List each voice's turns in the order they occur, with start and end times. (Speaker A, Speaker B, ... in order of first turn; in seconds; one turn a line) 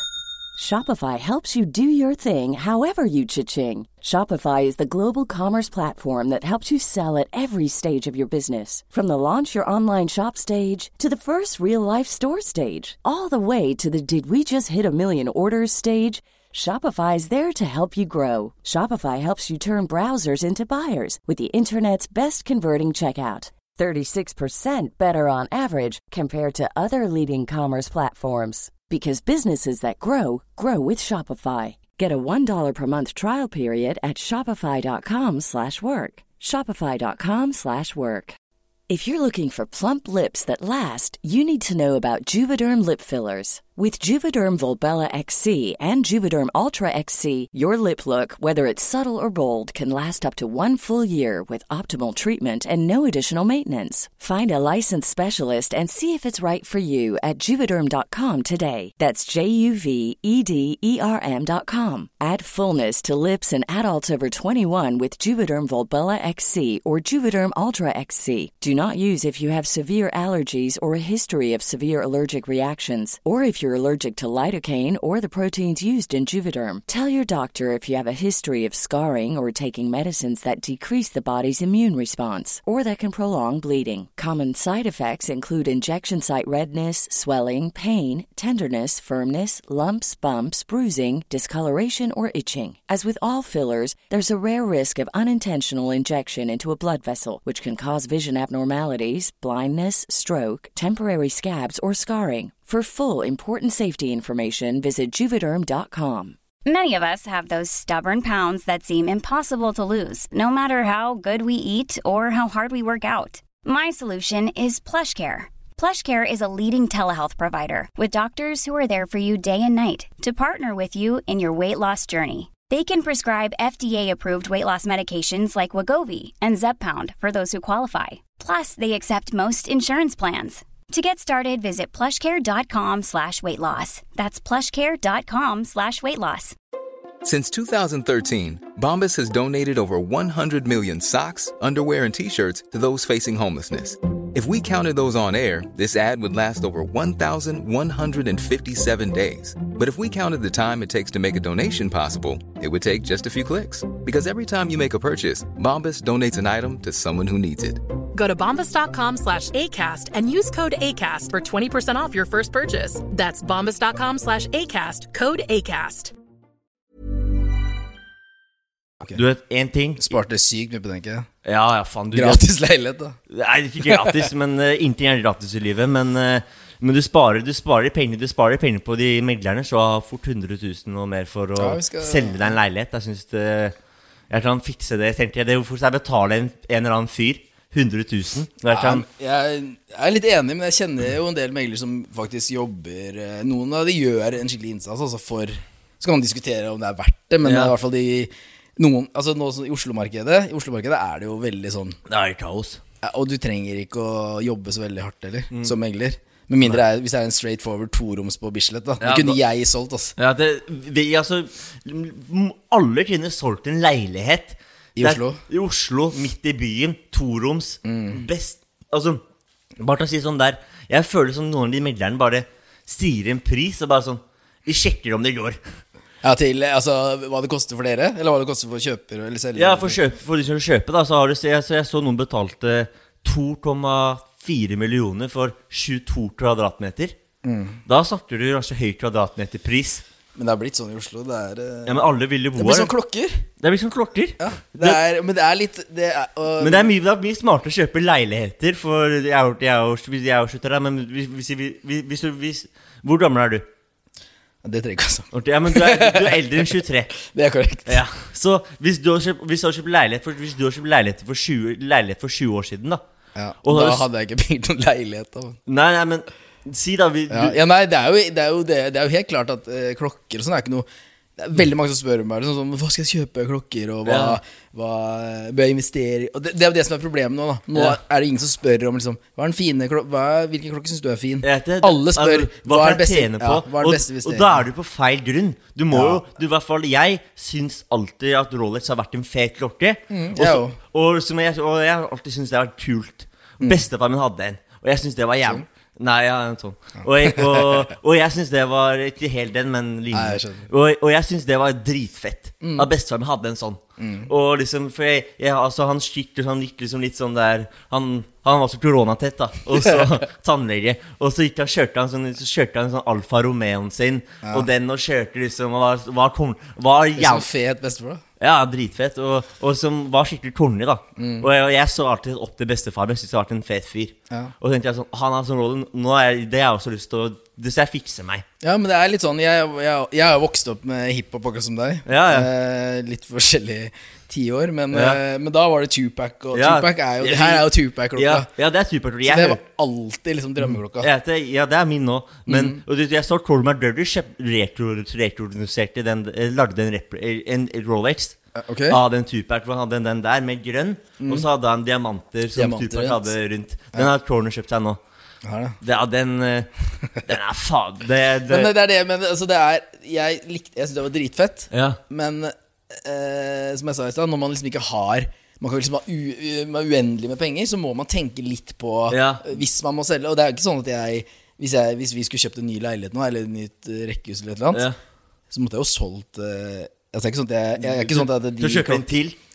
Speaker A: 0.6-38.4
Speaker A: 38.9-106.4
Speaker B: 106.7-136.6
Speaker C: 137.2-157.8
Speaker D: 158.1-166.1
Speaker E: 169.2-170.1
Speaker F: 170.0-171.3
Speaker E: 171.4-172.4
Speaker F: 172.1-173.2
Speaker E: 173.3-183.7
Speaker F: 173.8-174.3
Speaker F: 181.6-182.6
Speaker E: 184.3-189.0
Speaker F: 188.7-202.0
Speaker E: 197.4-197.7
Speaker E: 202.1-202.8
Speaker F: 203.0-210.1
Speaker E: 209.0-209.4
Speaker E: 210.2-219.2
Speaker F: 215.0-215.4
Speaker F: 217.8-218.2
Speaker E: 219.8-225.6
Speaker F: 226.2-230.0
Speaker E: 229.6-237.2
Speaker F: 237.4-237.8
Speaker E: 237.9-240.0
Speaker F: 240.3-243.4
Speaker E: 241.9-242.9
Speaker E: 243.6-245.0
Speaker F: 244.4-246.9
Speaker E: 246.6-253.7
Speaker F: 254.6-256.7
Speaker E: 255.3-257.1
Speaker F: 257.2-258.0
Speaker E: 257.9-263.0
Speaker F: 263.4-265.6
Speaker E: 263.6-264.1
Speaker E: 265.7-267.6
Speaker F: 267.3-270.9
Speaker F: 271.4-284.6
Speaker E: 274.1-274.4
Speaker E: 281.4-317.5
Speaker F: 285.9-286.2
Speaker F: 290.1-290.8
Speaker F: 297.2-297.8
Speaker F: 300.1-300.7
Speaker F: 302.6-302.9
Speaker F: 304.0-304.3
Speaker F: 317.2-318.2
Speaker E: 318.4-328.4
Speaker F: 321.2-321.5
Speaker F: 328.6-338.5
Speaker E: 332.1-332.5
Speaker E: 334.9-335.2
Speaker E: 336.5-339.6
Speaker F: 339.2-341.1
Speaker E: 340.6-348.4
Speaker F: 342.5-342.8
Speaker F: 348.6-349.0
Speaker E: 348.9-355.0
Speaker F: 351.2-351.5
Speaker F: 352.6-353.3
Speaker F: 355.4-355.8
Speaker E: 355.8-356.7
Speaker E: 357.2-358.7
Speaker F: 358.5-374.9
Speaker E: 361.7-362.0
Speaker E: 369.1-369.4
Speaker F: 375.5-379.1
Speaker E: 377.8-379.4